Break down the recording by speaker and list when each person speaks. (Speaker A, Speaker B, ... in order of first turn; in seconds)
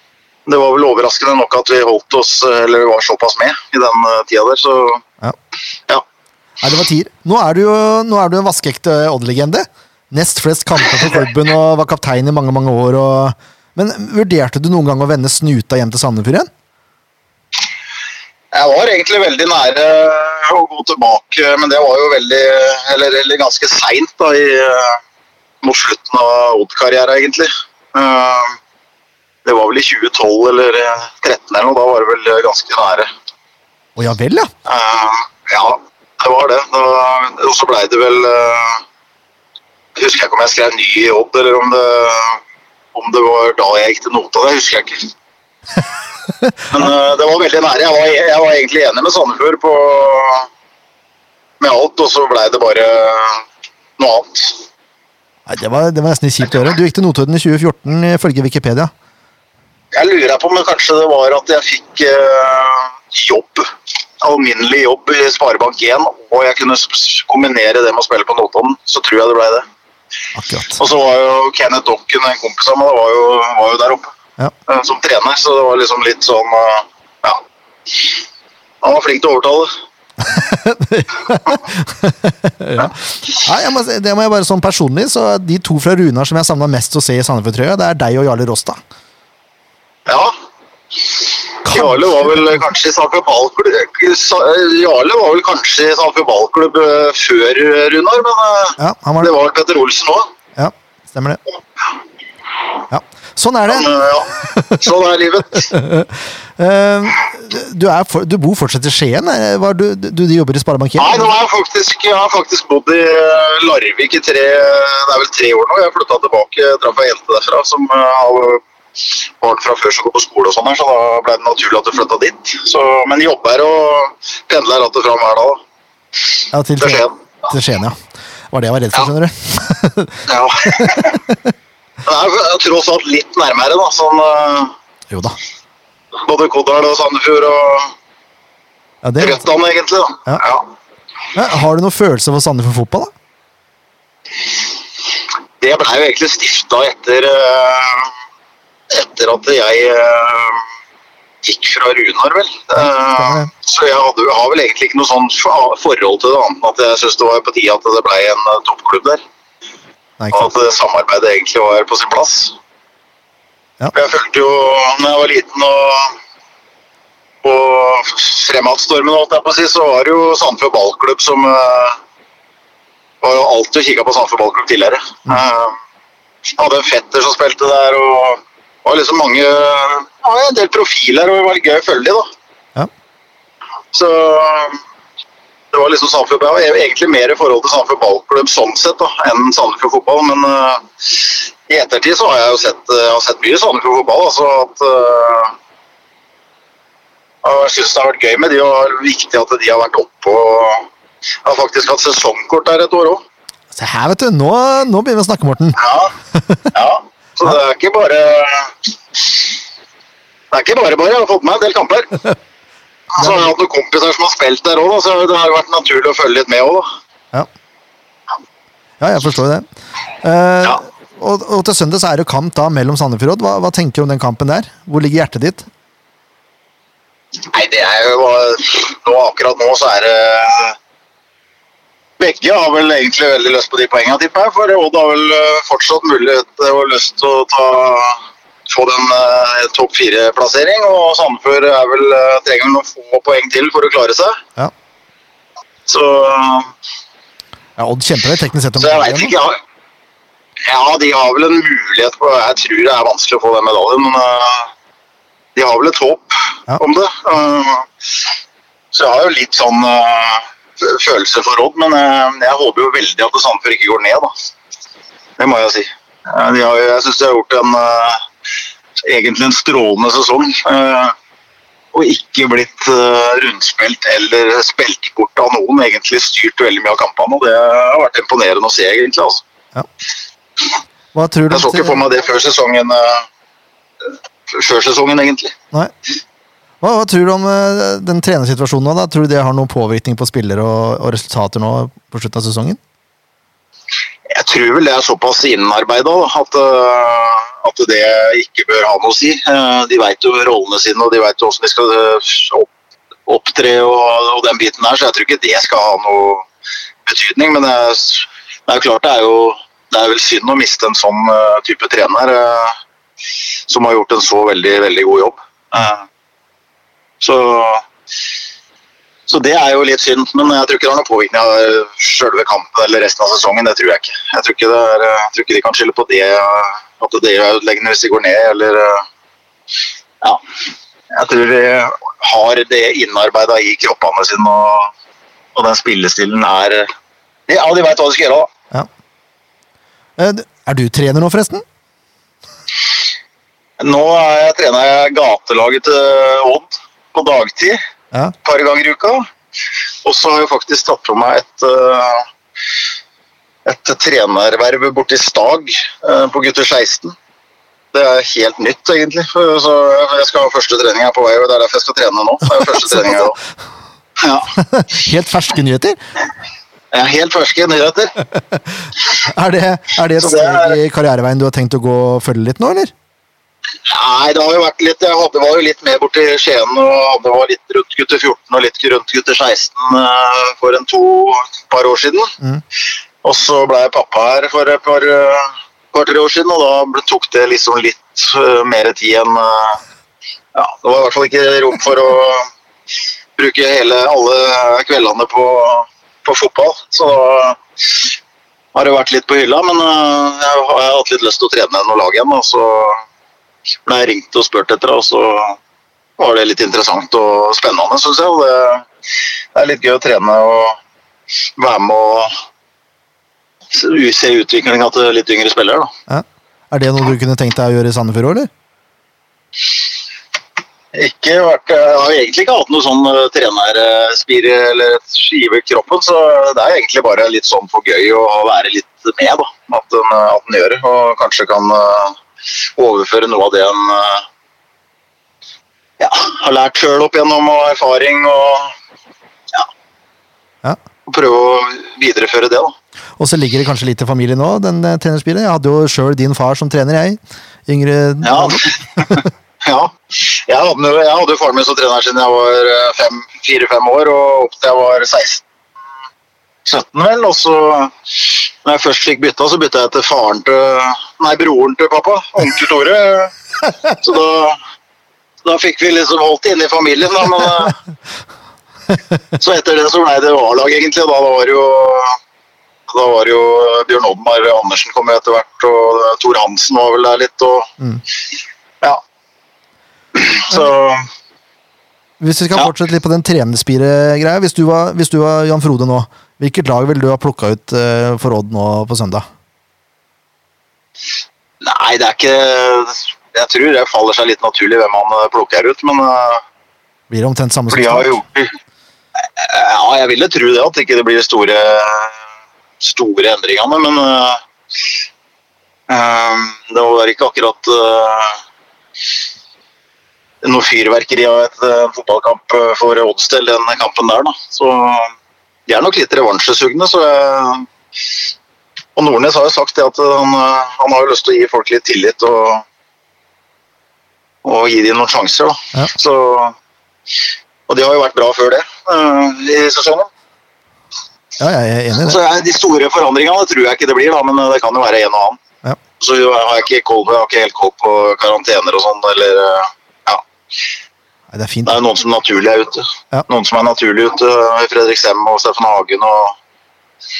Speaker A: 0.5-5.0, 18.5-25.0, 25.6-28.6, 29.4-33.1, 34.6-38.8, 40.0-42.4, 42.9-45.1, 46.7-50.5, 51.6-53.4, 54.0-54.6, 59.9-63.7, 64.2-69.6, 70.8-74.1, 74.7-77.4, 78.8-79.7, 90.0-90.3, 91.0-100.3, 103.7-105.7, 111.0-118.6, 119.4-125.6, 126.8-127.1, 130.3-131.2, 132.0-134.7, 136.2-137.9, 139.2-140.7, 145.6-148.1, 148.9-150.6, 151.4-159.2, 160.3-162.6, 163.9-166.2, 167.4-172.0, 173.2-175.8, 176.5-182.3, 183.9-184.8, 185.7-195.5, 197.4-200.9, 201.4-203.2, 205.8-206.1, 206.7-209.4, 210.5-212.2, 213.1-216.8, 227.5-230.8, 232.2-244.4, 245.8-246.7, 248.8-249.6, 250.7-254.7, 255.5-257.9, 258.9-264.3, 265.4-268.2, 269.0-271.1, 271.9-279.4, 281.5-283.3, 284.5-285.5, 294.3-302.7, 303.3-306.4, 307.0-312.8, 313.7-316.0, 317.2-317.8, 319.3-329.1, 331.1-334.9, 335.5-336.9, 337.5-338.5, 343.8-347.8, 348.4-349.2, 350.0-352.3, 353.6-357.1, 357.9-363.4, 364.2-364.5, 366.9-368.1, 370.2-370.8, 373.9-382.3, 383.2-389.8, 390.5-392.5, 393.4-398.1, 398.7-403.0, 403.8-405.6, 406.2-408.9, 409.5-410.8, 411.6-412.3, 413.7-415.9, 420.9-432.2, 432.8-434.2, 436.0-438.7, 441.1-442.7, 448.2-455.4, 456.6-463.3, 463.9-464.6, 465.4-467.8, 469.4-472.2, 472.9-477.7, 480.1-481.0, 491.6-496.4, 497.7-498.5, 499.4-502.2, 502.8-504.4, 505.9-508.4, 510.4-515.1, 515.7-517.7, 519.0-522.6, 524.4-526.5, 527.7-530.1, 532.0-535.4, 536.0-540.2, 541.6-546.4
Speaker B: 6.6-16.5, 34.0-34.5, 55.5-58.9, 70.3-70.8, 80.2-88.8, 91.7-92.4, 98.8-99.3, 100.5-101.4, 102.9-103.9, 104.5-104.9, 105.6-111.3, 126.5-128.0, 128.5-131.4, 135.1-135.4, 139.0-139.4, 141.3-143.1, 152.8-153.5, 160.2-160.5, 203.7-205.8, 206.3-206.7, 213.2-213.5, 219.0-219.7, 220.2-225.7, 247.8-249.3, 281.1-282.0, 286.8-292.8, 340.2-341.6, 362.6-363.3, 364.6-366.0, 368.3-372.9, 416.1-418.5, 443.2-449.2, 482.2-489.3, 497.1-498.1, 531.4-532.2, 541.3-541.8